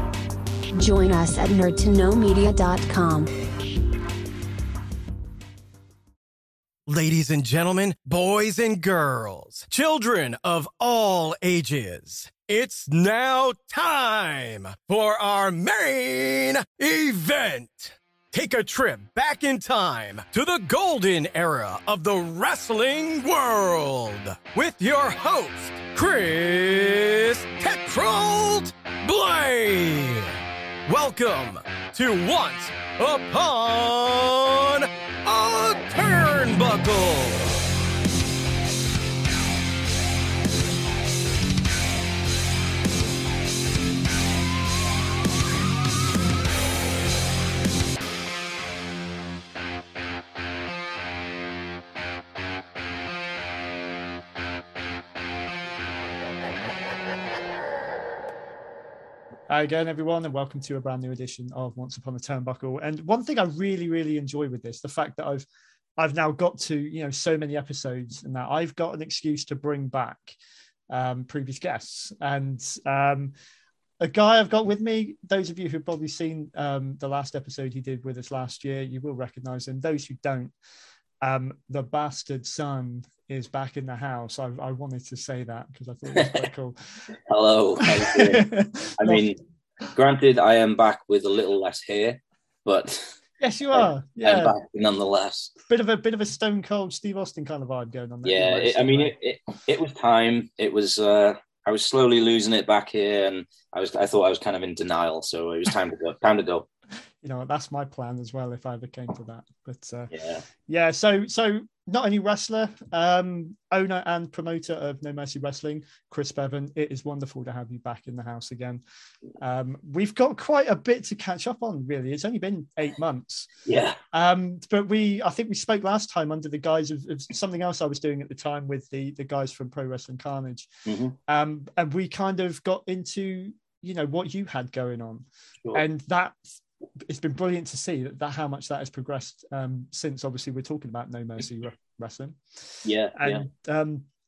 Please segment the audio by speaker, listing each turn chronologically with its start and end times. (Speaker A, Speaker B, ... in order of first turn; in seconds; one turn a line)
Speaker A: 0.7-3.3
Speaker B: 6.9-30.3
Speaker B: 30.9-37.4
Speaker C: 59.5-65.4
Speaker C: 66.0-70.3
Speaker C: 70.9-73.3
Speaker C: 74.0-80.5
Speaker C: 81.2-86.8
Speaker D: 86.1-86.5
Speaker D: 87.3-88.5
Speaker C: 87.8-89.3
Speaker D: 89.0-89.4
Speaker D: 89.9-93.1
Speaker C: 93.4-94.5
Speaker D: 93.7-95.5
Speaker C: 95.7-99.1
Speaker D: 98.2-106.7
Speaker C: 107.2-110.1
Speaker D: 110.1-110.4
Speaker C: 110.7-118.8
Speaker C: 119.4-123.5
Speaker D: 123.7-124.0
Speaker C: 124.1-130.7
Speaker D: 130.8-131.2
Speaker C: 131.3-136.5
Speaker C: 137.1-144.0
Speaker D: 142.8-143.4